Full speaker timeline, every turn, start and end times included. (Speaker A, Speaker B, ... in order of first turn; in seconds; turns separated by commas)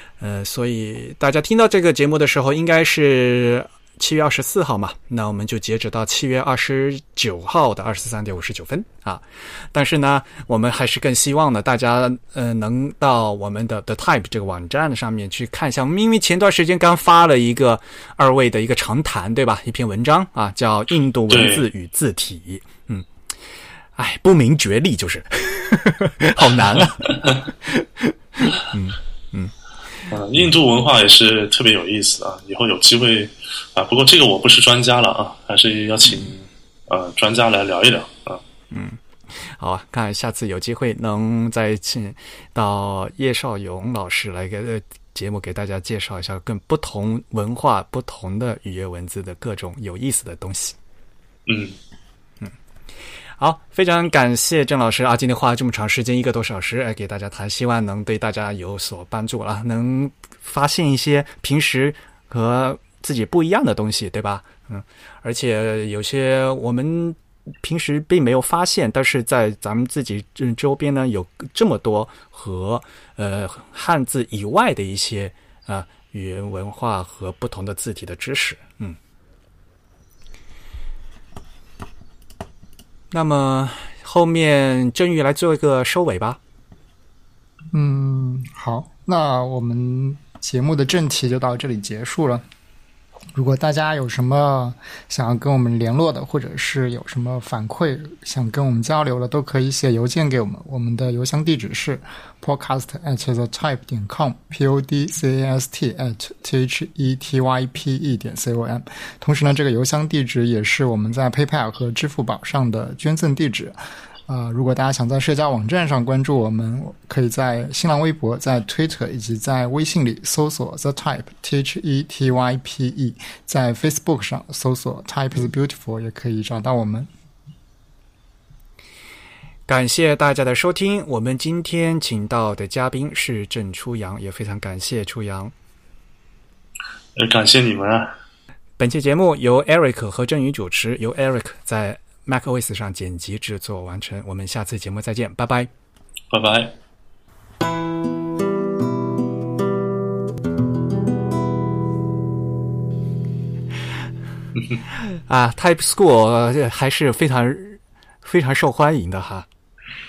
Speaker A: 0.2-23.1, Speaker B: 21.3-21.6, Speaker A: 24.0-29.5, Speaker B: 30.1-38.4, Speaker A: 38.7-50.8, Speaker B: 51.5-51.8, Speaker A: 53.4-79.0, Speaker A: 83.1-86.4, Speaker C: 87.7-92.4, Speaker C: 93.3-113.8, Speaker C: 114.3-127.1, Speaker A: 129.7-135.5, Speaker B: 137.2-138.1, Speaker A: 138.8-145.7, Speaker B: 146.3-146.8, Speaker A: 155.1-159.5